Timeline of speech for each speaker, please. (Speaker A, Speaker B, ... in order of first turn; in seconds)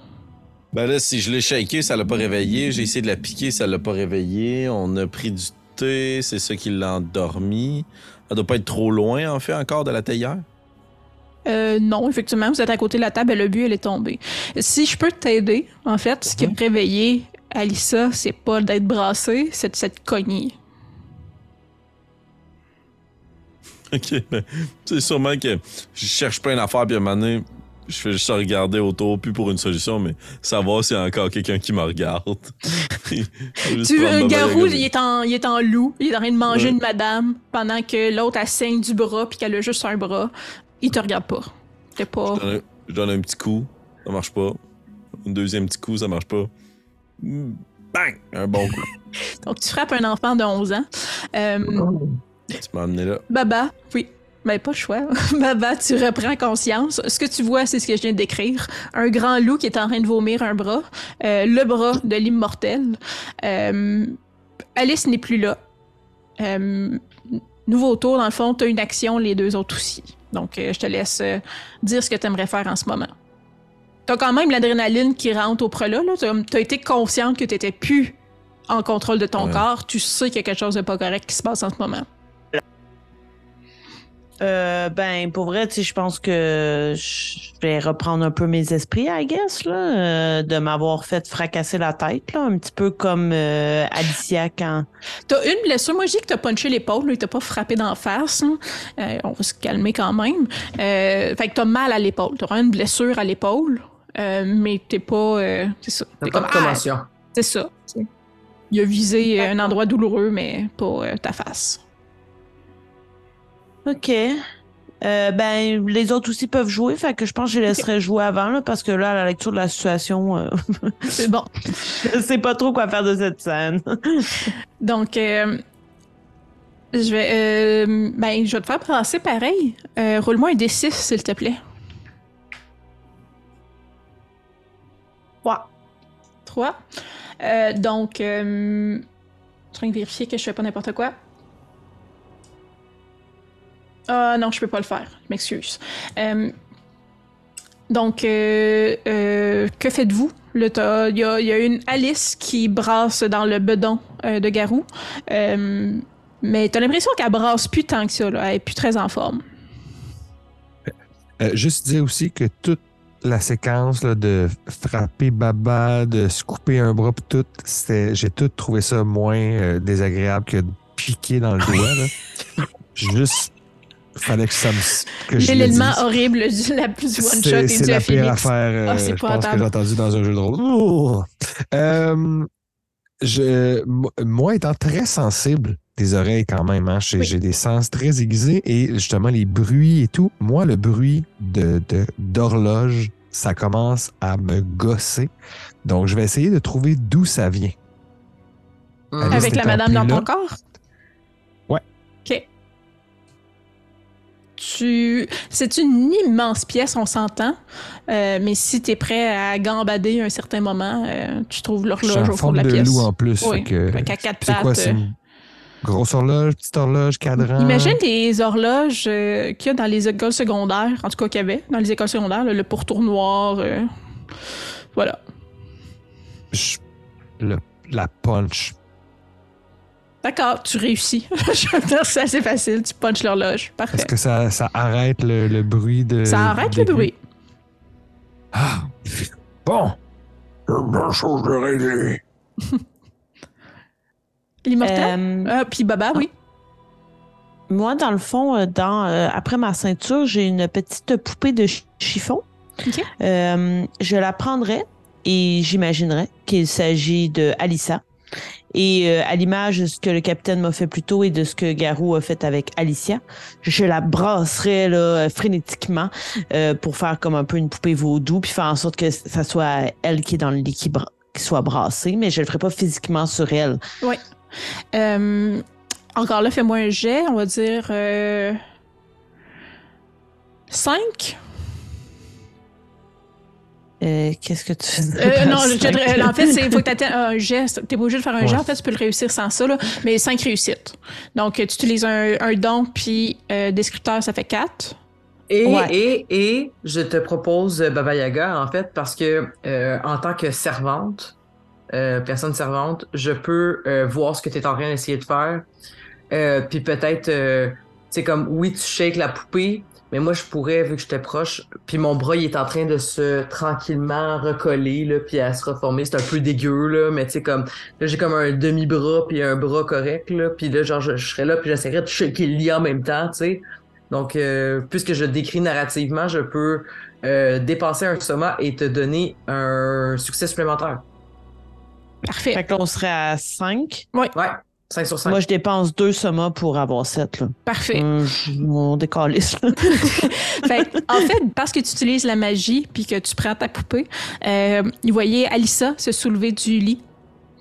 Speaker A: 0.7-10.4, 23.9-34.9, 36.5-36.8, 42.3-44.6, 45.2-46.5, 47.2-48.9, 52.6-53.2, 79.4-79.7
Speaker B: 11.5-20.6, 33.6-42.4, 49.4-51.9, 53.3-64.2, 64.8-65.6, 66.4-73.1, 74.1-78.2, 78.7-82.1, 95.3-108.1, 108.7-111.8, 121.2-121.9, 124.8-125.6, 126.9-131.6, 136.5-136.8, 137.4-139.0, 139.7-141.1, 144.1-146.5, 147.9-159.4, 175.3-179.7, 199.3-200.6, 204.6-207.6, 208.1-215.0, 217.4-223.9, 224.9-225.2, 230.2-234.1, 236.2-237.2, 244.7-246.3, 274.9-275.6, 276.2-278.6, 280.7-281.4, 285.2-295.0, 332.2-332.6, 337.7-338.1, 339.8-347.0
Speaker C: 51.8-52.1, 106.2-107.1, 199.1-199.6, 295.5-301.4, 301.9-305.7, 306.3-331.0, 334.4-335.4
Speaker D: 84.4-94.9, 113.9-114.4, 115.0-121.2, 121.8-124.5, 244.8-245.5, 247.7-252.4, 253.2-258.0, 258.7-273.8, 284.0-286.8, 295.6-295.9, 332.5-334.1, 335.3-341.2
Speaker E: 161.4-172.1, 172.9-173.5, 174.2-176.1, 177.2-182.5, 183.2-195.3, 195.8-197.8, 199.2-200.3, 212.0-215.2, 215.8-218.0, 226.5-226.8, 227.4-228.8, 233.9-237.1, 238.5-240.0, 240.7-242.2